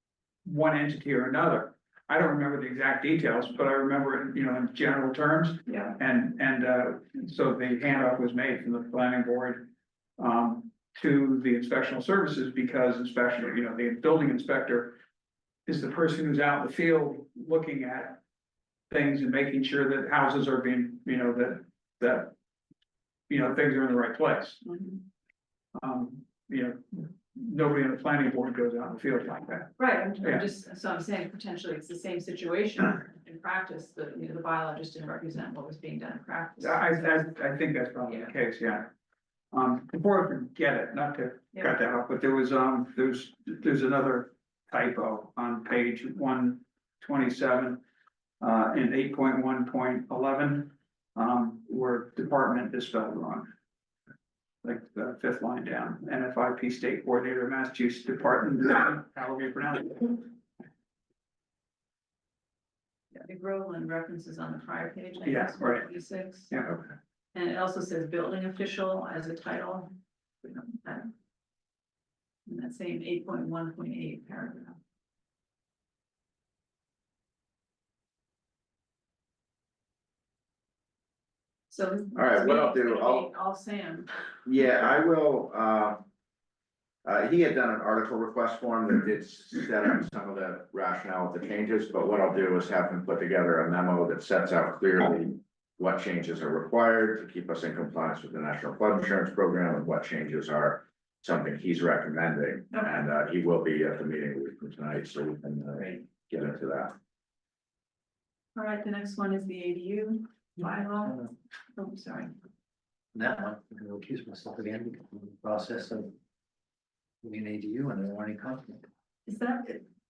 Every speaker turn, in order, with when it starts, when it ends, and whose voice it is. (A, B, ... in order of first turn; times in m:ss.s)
0:00.4-0:15.0 A
0:05.7-0:06.0 B
0:15.6-0:18.2 A
0:18.9-0:22.3 A
0:23.3-0:24.6 A
0:24.6-0:25.0 B
0:25.8-0:30.4 A
0:29.8-0:37.3 B
0:36.6-0:38.9 A
0:38.1-0:38.3 B
0:39.5-0:47.8 A
0:48.4-0:53.5 A
0:54.6-1:00.3 A
1:03.1-1:06.5 B
1:05.2-1:05.9 A
1:07.3-1:09.9 B
1:10.4-1:11.1 B
1:12.5-1:14.8 B
1:21.7-1:24.1 B
1:22.1-1:23.2 C
1:24.4-1:26.0 C
1:27.0-1:46.9 C
1:42.7-1:43.0 B
1:45.8-1:46.0 B
1:48.5-1:52.3 B
1:53.1-1:56.2 D
1:57.2-1:58.8 D
1:59.2-1:59.8 B